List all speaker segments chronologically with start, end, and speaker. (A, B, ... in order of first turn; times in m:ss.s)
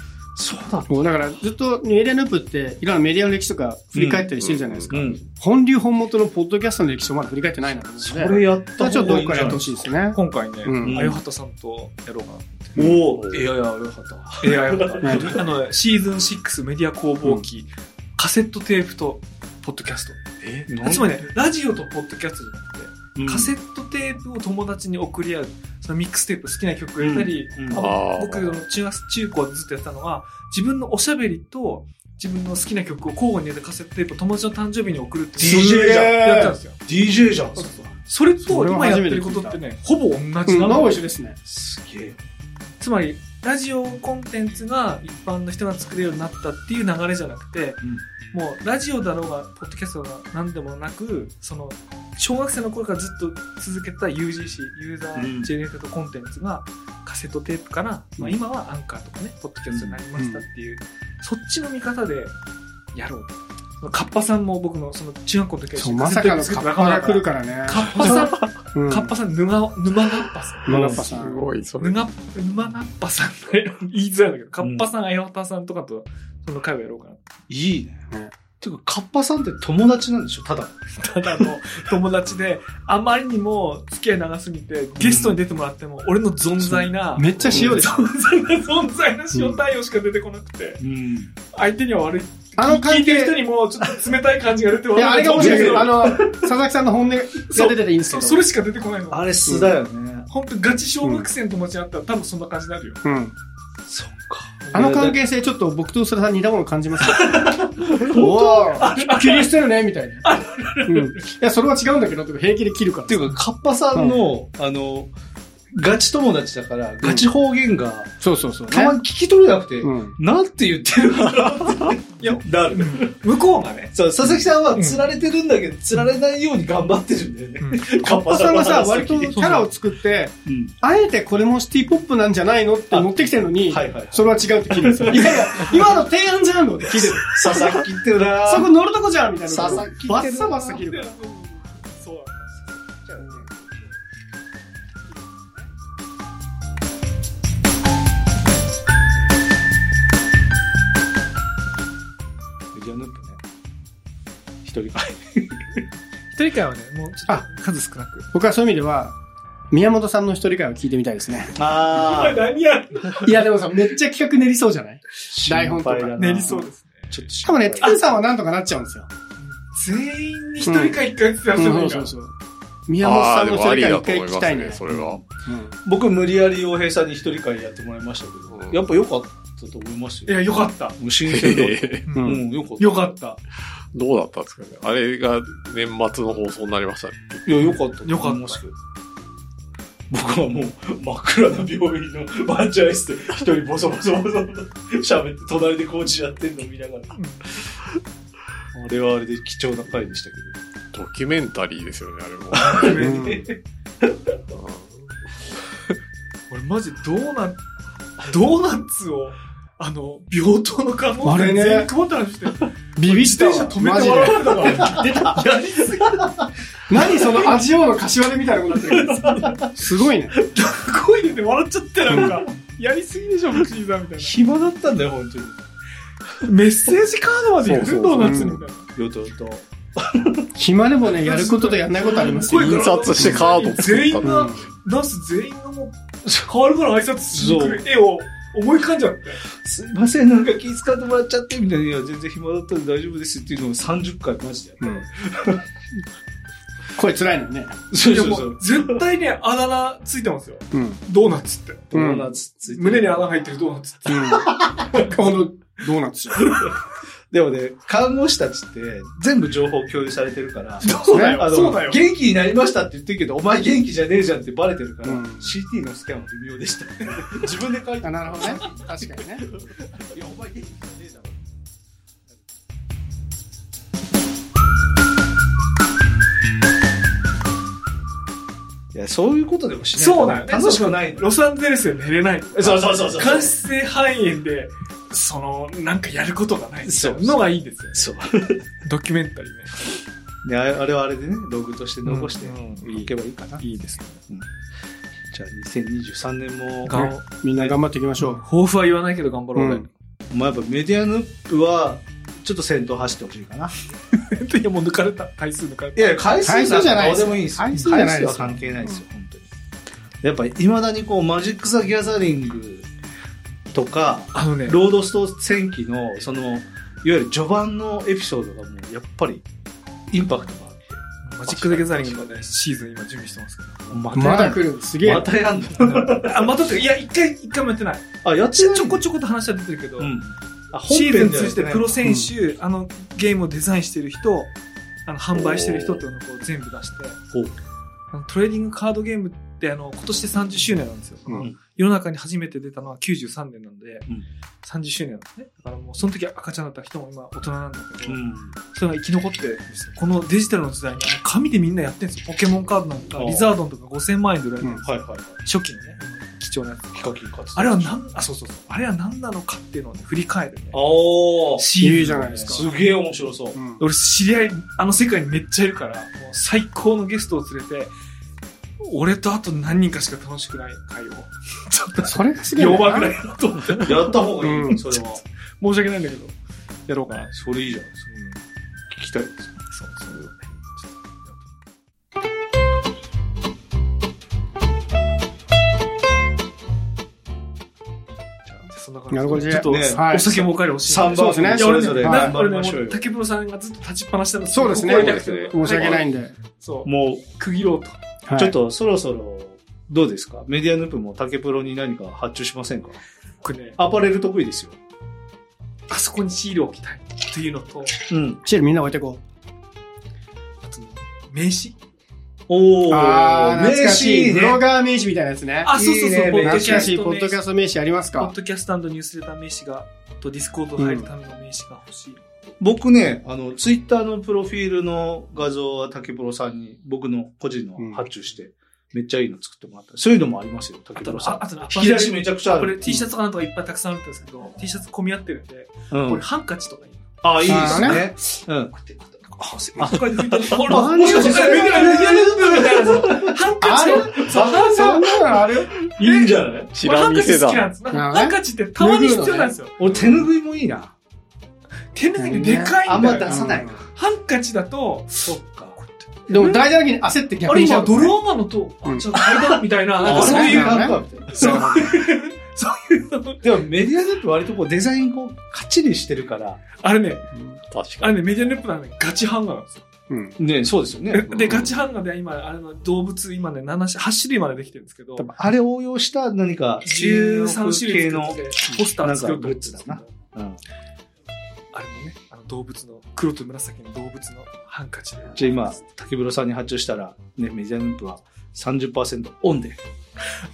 0:00.4-0:01.3 A
0:00.9-0:11.1 B
0:03.9-0:04.3 A
0:04.4-0:04.9 C
0:04.9-0:05.2 A
0:08.0-0:09.7 A
0:09.3-0:12.8 D
0:10.8-0:11.2 A
0:12.8-0:15.4 A
0:13.1-0:13.5 C
0:14.4-0:36.8 D
0:15.0-0:15.4 B
0:20.7-0:21.2 A
0:23.2-0:23.5 A
0:27.0-0:27.9 A
0:27.8-0:28.6 C
0:35.4-0:37.9 A
0:35.4-0:36.6 B
0:37.6-0:41.1 D
0:38.4-0:39.6 B
0:40.5-0:41.4 B
0:41.4-0:42.2 A
0:42.8-0:47.8 D
0:48.3-1:02.4 D
0:55.2-0:55.5 A
0:59.7-1:00.0 A
1:00.2-1:00.4 B
1:02.9-1:11.0 D
1:05.8-1:09.1 B
1:07.9-1:08.4 A
1:10.7-1:11.2 A
1:10.7-1:11.4 B
1:11.0-1:12.0 C
1:11.8-1:17.2 D
1:14.6-1:14.9 A
1:17.5-1:18.1 A
1:18.6-1:20.8 A
1:21.0-1:30.8 D
1:25.0-1:25.4 A
1:26.6-1:28.1 B
1:27.4-1:27.9 A
1:29.3-1:29.6 B
1:30.8-1:31.3 A
1:31.5-1:36.0 D
1:32.6-1:33.4 B
1:35.0-1:38.4 B
1:35.3-1:36.4 A
1:37.5-1:39.5 D
1:39.1-1:40.3 A
1:39.5-1:39.8 B
1:40.3-1:43.0 D
1:43.0-1:43.4 B
1:43.9-1:45.2 A
1:44.7-1:45.0 D
1:44.7-1:50.2 B
1:47.0-1:49.5 A
1:48.8-1:49.4 D
1:50.2-1:51.2 D
1:50.9-1:53.3 B
1:53.1-1:55.1 A
1:54.0-1:54.2 B
1:55.8-2:03.1 A
1:58.2-1:59.0 B
1:59.8-2:00.2 B
2:02.2-2:03.9 D
2:03.9-2:09.4 A
2:04.7-2:05.0 D
2:07.6-2:08.0 D
2:08.1-2:17.8 B
2:09.2-2:09.7 D
2:10.5-2:10.7 A
2:12.9-2:16.0 A
2:17.0-2:18.7 A
2:18.4-2:21.1 B
2:19.5-2:20.8 A
2:20.6-2:22.4 D
2:22.5-2:23.9 A
2:32.7-2:33.4 A
2:34.6-2:35.8 A
2:36.3-2:38.3 D
2:38.3-2:39.2 B
2:39.7-2:41.5 B
2:41.6-2:42.4 A
2:42.0-2:43.3 D
2:43.2-2:46.7 B
2:45.2-2:48.2 A
2:46.2-2:47.2 D
2:47.4-2:49.1 B
2:49.4-2:52.1 D
2:50.6-2:51.0 B
2:51.6-2:52.3 B
2:52.9-2:55.8 B
2:53.0-2:55.2 C
2:54.9-2:55.2 A
2:55.8-3:03.2 A
2:58.5-2:58.8 C
3:00.3-3:01.0 D
3:01.3-3:02.1 C
3:02.1-3:03.4 D
3:03.9-3:07.5 C
3:07.5-3:08.8 A
3:08.0-3:08.6 D
3:10.1-3:17.2 A
3:17.1-3:17.5 D
3:18.7-3:20.6 A
3:20.9-3:23.0 C
3:22.5-3:23.5 D
3:22.6-3:24.1 A
3:22.9-3:23.5 B
3:24.5-3:25.1 C
3:26.5-3:27.6 D
3:28.2-3:36.3 D
3:31.2-3:31.9 B
3:33.0-3:35.5 B
3:34.4-3:35.4 A
3:36.0-3:36.5 A
3:36.9-3:40.4 B
3:37.0-3:37.4 A
3:38.9-3:39.7 A
3:40.4-3:44.4 D
3:44.2-3:45.7 A
3:46.4-3:48.9 D
3:47.6-3:48.6 C
3:48.2-3:48.6 B
3:49.0-3:50.5 A
3:50.6-3:53.4 B
3:51.1-3:53.1 A
3:51.3-3:59.4 D
3:52.5-3:54.6 C
3:54.2-3:54.6 B
3:57.3-3:57.8 A
3:59.5-4:05.6 A
4:07.0-4:07.8 B
4:07.9-4:09.0 A
4:08.0-4:11.9 D
4:10.7-4:11.0 B
4:11.9-4:13.4 A
4:11.9-4:12.3 B
4:12.7-4:15.2 D
4:14.1-4:16.5 B
4:14.3-4:15.1 A
4:16.4-4:16.8 A
4:17.3-4:29.2 A
4:20.8-4:22.0 D
4:21.1-4:21.4 B
4:25.0-4:25.5 B
4:28.0-4:29.5 B
4:30.0-4:31.4 A
4:38.9-4:41.3 A
4:40.0-4:48.1 D
4:42.6-4:43.5 A
4:46.8-4:48.7 A
4:48.8-4:50.0 D
4:50.4-4:53.6 A
4:52.0-4:54.2 D
4:55.3-4:57.1 A
4:56.8-4:59.9 D
4:56.9-4:58.4 B
4:59.6-4:59.9 B
5:00.3-5:03.7 A
5:04.1-5:06.2 D
5:06.0-5:09.5 A
5:06.4-5:09.0 B
5:10.2-5:12.9 A
5:13.7-5:19.4 A
5:14.3-5:14.8 D
5:20.1-5:22.4 A
5:21.2-5:24.0 D
5:23.9-5:26.5 A
5:24.1-5:25.3 B
5:25.8-5:30.1 D
5:28.2-5:29.0 A
5:30.0-5:32.0 A
5:30.9-5:34.5 D
5:32.0-5:32.3 B
5:35.1-5:37.2 D
5:35.3-5:36.0 C
5:38.1-5:44.0 D
5:44.6-5:48.2 D
5:48.1-5:48.6 A
5:48.7-5:54.9 D
5:53.2-5:53.5 A
5:54.8-5:55.4 A
5:55.4-6:00.8 D
5:57.0-5:58.0 A
6:00.7-6:03.6 A
6:01.6-6:02.6 D
6:01.8-6:02.7 B
6:03.6-6:03.8 B
6:03.8-6:07.9 D
6:08.8-6:16.4 D
6:12.0-6:13.3 B
6:13.8-6:15.2 A
6:14.4-6:14.8 B
6:16.9-6:17.3 D
6:17.3-6:18.0 A
6:18.1-6:18.4 D
6:18.9-6:19.5 A
6:19.7-6:21.4 D
6:28.5-6:36.1 D
6:29.1-6:30.4 B
6:29.5-6:33.1 A
6:31.1-6:32.3 B
6:34.5-6:36.3 B
6:34.8-6:36.1 C
6:36.6-6:38.0 D
6:36.8-6:37.2 A
6:38.3-6:38.6 B
6:38.4-6:43.0 A
6:43.4-6:43.8 D
6:43.8-6:44.8 A
6:45.9-6:48.0 D
6:48.1-6:48.4 A
6:48.4-6:49.2 B
6:50.6-6:51.8 D
6:52.5-6:54.6 A
6:52.9-6:55.7 B
6:55.6-6:57.4 D
6:55.7-6:56.9 A
6:56.4-6:58.3 B
6:58.2-7:02.2 D
7:00.8-7:01.1 B
7:02.6-7:12.8 A
7:07.8-7:08.0 B
7:11.0-7:18.1 D
7:15.9-7:16.2 A
7:17.2-7:18.7 A
7:17.4-7:18.1 B
7:18.8-7:25.2 D
7:19.3-7:26.7 A
7:20.6-7:21.8 B
7:23.6-7:25.8 B
7:26.0-7:29.8 D
7:26.7-7:27.7 C
7:27.9-7:30.0 B
7:29.8-7:30.9 A
7:32.0-7:36.6 D
7:32.2-7:33.8 B
7:32.8-7:33.8 A
7:35.2-7:35.8 A
7:36.3-7:38.2 B
7:37.5-7:43.4 D
7:39.4-7:41.9 A
7:40.0-7:42.1 B
7:43.4-7:46.6 A
7:46.8-7:47.3 D
7:47.7-7:48.2 C
7:48.0-7:49.8 D
7:50.1-7:50.4 B
7:50.4-7:51.6 A
7:51.1-7:55.3 D
7:51.3-7:51.7 C
7:55.2-8:00.6 A
7:56.8-8:00.1 D
8:01.7-8:05.8 D
8:05.4-8:09.8 A